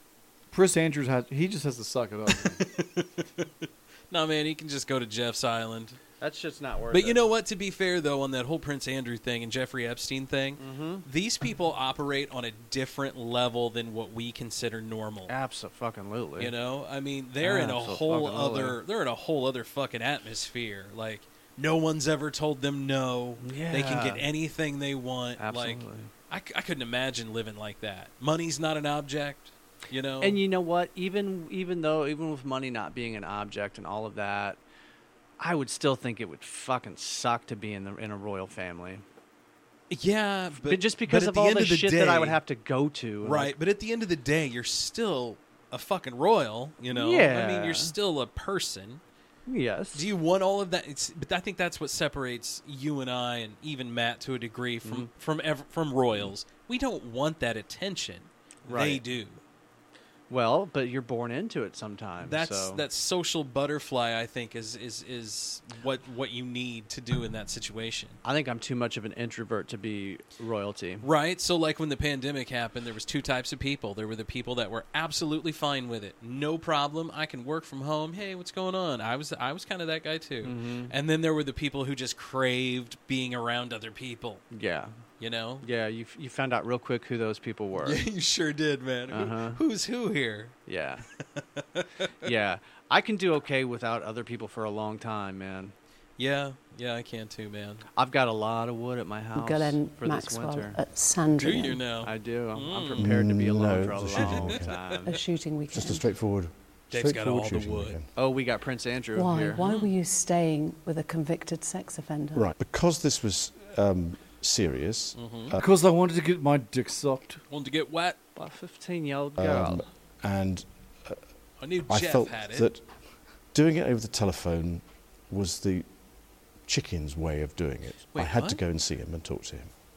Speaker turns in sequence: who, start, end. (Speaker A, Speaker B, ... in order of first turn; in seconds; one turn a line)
Speaker A: 0.5-2.6
Speaker B: 2.3-6.0
Speaker C: 6.2-7.2
Speaker B: 6.9-15.3
Speaker C: 10.6-11.1
Speaker C: 15.3-16.5
Speaker B: 16.4-30.4
Speaker C: 17.4-18.8
Speaker C: 23.4-24.2
Speaker C: 25.4-26.1
Speaker C: 30.2-34.6
Speaker C: 35.4-39.0
Speaker B: 39.9-42.4
Speaker C: 40.6-43.5
Speaker B: 43.2-49.0
Speaker C: 46.9-47.9
Speaker C: 49.5-50.1
Speaker B: 49.9-59.4
Speaker C: 54.8-55.1
Speaker C: 58.7-59.0
Speaker C: 60.3-62.8
Speaker B: 62.2-68.2
Speaker C: 68.2-71.1
Speaker B: 71.0-84.4
Speaker C: 80.4-80.9
Speaker C: 84.5-85.0
Speaker B: 85.2-85.7
Speaker C: 85.6-88.0
Speaker B: 87.8-90.6
Speaker C: 89.1-89.6
Speaker C: 90.7-91.1
Speaker B: 91.4-92.1
Speaker C: 92.2-95.7
Speaker B: 96.2-97.8
Speaker C: 98.0-100.8
Speaker D: 99.3-101.9
Speaker B: 101.4-103.1
Speaker C: 102.0-105.2
Speaker E: 103.0-104.9
Speaker B: 104.2-105.0
Speaker D: 105.1-106.0
Speaker E: 105.7-108.1
Speaker B: 106.9-108.0
Speaker C: 108.2-109.6
Speaker D: 109.2-112.5
Speaker B: 109.6-109.9
Speaker E: 112.3-115.6
Speaker B: 115.2-115.5
Speaker A: 115.6-117.4
Speaker B: 117.5-118.2
Speaker C: 118.4-119.8
Speaker E: 119.4-121.2
Speaker B: 121.6-122.7
Speaker E: 121.9-122.8
Speaker E: 123.5-125.9
Speaker E: 126.7-129.7
Speaker B: 128.1-128.6